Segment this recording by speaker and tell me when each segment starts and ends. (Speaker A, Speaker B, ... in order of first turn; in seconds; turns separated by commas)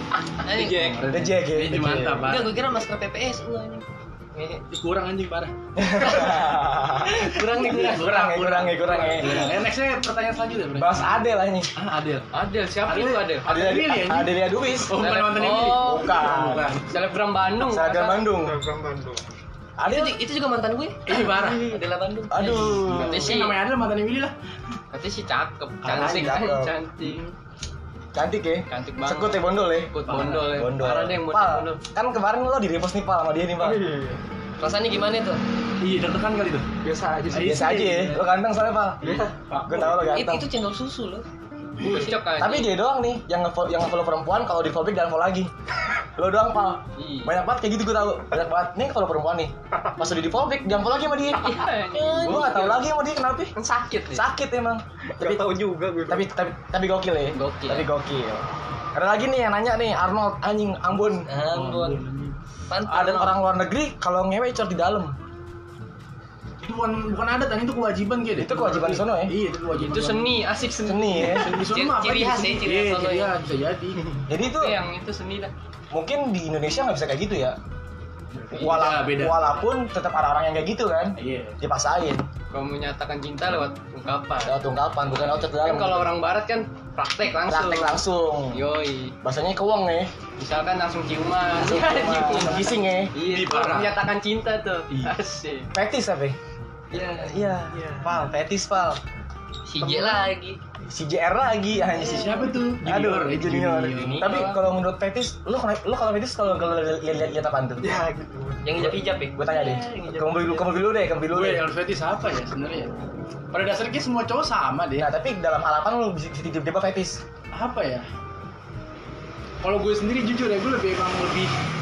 Speaker A: 0.5-1.1, Speaker B: 0.5-0.7, Speaker C: 0.6-2.6, Speaker D: 1.1-2.3, Speaker A: 2.2-4.6, Speaker C: 4.7-5.5, Speaker D: 5.8-9.5, Speaker A: 5.9-9.5, Speaker C: 7.6-11.2, Speaker D: 10.8-11.7, Speaker C: 11.8-12.3, Speaker A: 12.3-13.5, Speaker C: 12.9-16.9, Speaker D: 13.5-15.0, Speaker B: 15.0-18.3, Speaker A: 15.0-15.4, Speaker D: 15.8-16.8, Speaker D: 17.6-18.6, Speaker E: 18.4-19.2, Speaker D: 19.8-20.2, Speaker A: 19.8-22.8, Speaker C: 21.1-21.9, Speaker D: 22.3-23.3, Speaker C: 22.5-24.3, Speaker B: 22.9-23.6, Speaker B: 25.1-27.3, Speaker C: 25.8-26.4, Speaker D: 25.9-26.7, Speaker C: 27.0-27.3, Speaker D: 28.1-29.9, Speaker B: 28.7-31.8, Speaker C: 30.1-30.6, Speaker D: 30.5-33.8, Speaker E: 33.6-34.2, Speaker A: 34.6-35.4, Speaker C: 35.8-36.7, Speaker E: 36.8-37.8, Speaker C: 37.3-38.3, Speaker D: 37.3-39.0, Speaker E: 39.0-39.3, Speaker C: 39.4-40.2, Speaker D: 39.7-40.5, Speaker A: 40.0-41.3, Speaker B: 41.8-42.7, Speaker A: 41.8-42.1, Speaker E: 41.9-42.1, Speaker D: 42.4-45.5, Speaker D: 46.2-53.5, Speaker B: 47.0-47.3, Speaker B: 51.3-52.8, Speaker B: 53.6-54.2, Speaker D: 54.1-55.6, Speaker E: 55.2-56.3, Speaker D: 56.1-58.4, Speaker A: 57.4-57.9, Speaker D: 59.0-61.3, Speaker A: 61.3-62.0, Speaker C: 61.4-62.4, Speaker A: 62.7-63.4, Speaker D: 62.9-65.1, Speaker C: 66.6-70.4, Speaker D: 68.4-69.3, Speaker B: 69.7-71.6, Speaker D: 70.8-71.6, Speaker C: 71.2-74.2, Speaker A: 71.7-73.4, Speaker D: 74.3-74.8, Speaker B: 74.4-75.5, Speaker D: 75.9-77.6, Speaker C: 78.3-79.7, Speaker D: 78.5-82.3, Speaker C: 81.2-81.6, Speaker B: 82.5-84.6, Speaker D: 84.4-86.1, Speaker B: 85.1-89.2, Speaker D: 87.5-88.6, Speaker D: 89.2-90.1, Speaker B: 90.4-95.7, Speaker D: 91.5-93.1, Speaker C: 93.2-94.0, Speaker C: 94.9-95.2, Speaker D: 95.7-96.4, Speaker D: 96.9-99.0, Speaker A: 99.7-100.6, Speaker E: 99.8-100.2, Speaker D: 100.9-107.8, Speaker A: 102.0-102.6, Speaker C: 102.0-104.4, Speaker A: 104.2-104.6, Speaker B: 104.2-104.5, Speaker E: 107.8-108.7, Speaker A: 108.6-110.8, Speaker D: 108.8-111.7, Speaker C: 111.3-112.9, Speaker C: 113.5-115.1, Speaker D: 115.0-117.2, Speaker C: 117.5-118.1, Speaker C: 119.6-121.5